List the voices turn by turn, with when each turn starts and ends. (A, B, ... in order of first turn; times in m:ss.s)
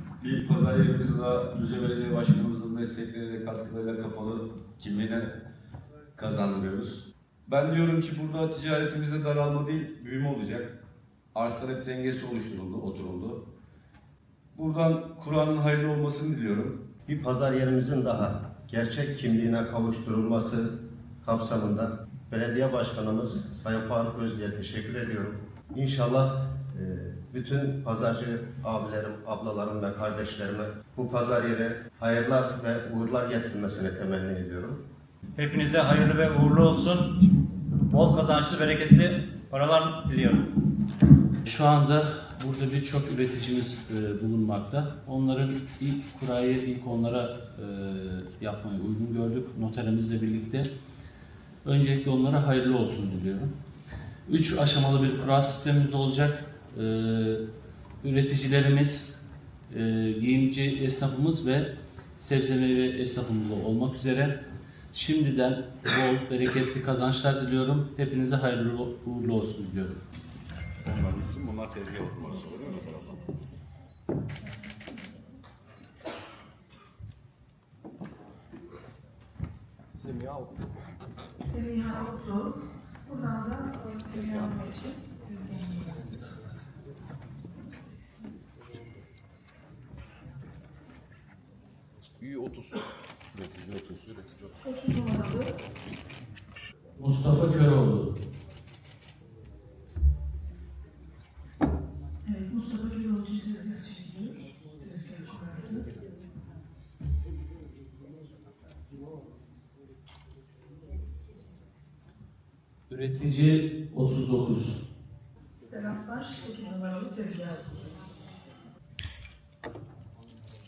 0:00.2-0:05.3 A
0:06.2-0:10.8 A
0:11.3-0:13.4 A
0:14.6-0:16.8 A
0:17.1-0:20.7 B
0:21.2-0:34.8 B
0:35.4-0:37.1 C
0:37.9-0:40.5 C
0:41.5-0:50.7 D
0:51.6-0:53.5 D
0:54.3-0:57.4 D
0:58.0-0:59.2 D
0:59.7-1:04.3 D
1:04.9-1:10.0 D
1:10.8-1:13.3 A
1:20.0-1:20.5 A
1:21.4-1:26.3 E
1:32.2-1:32.8 A
1:33.3-1:34.6 A
1:34.6-1:35.6 E
1:37.0-1:38.1 D
1:42.2-1:45.9 E
1:52.9-1:54.8 D
1:55.6-1:57.8 E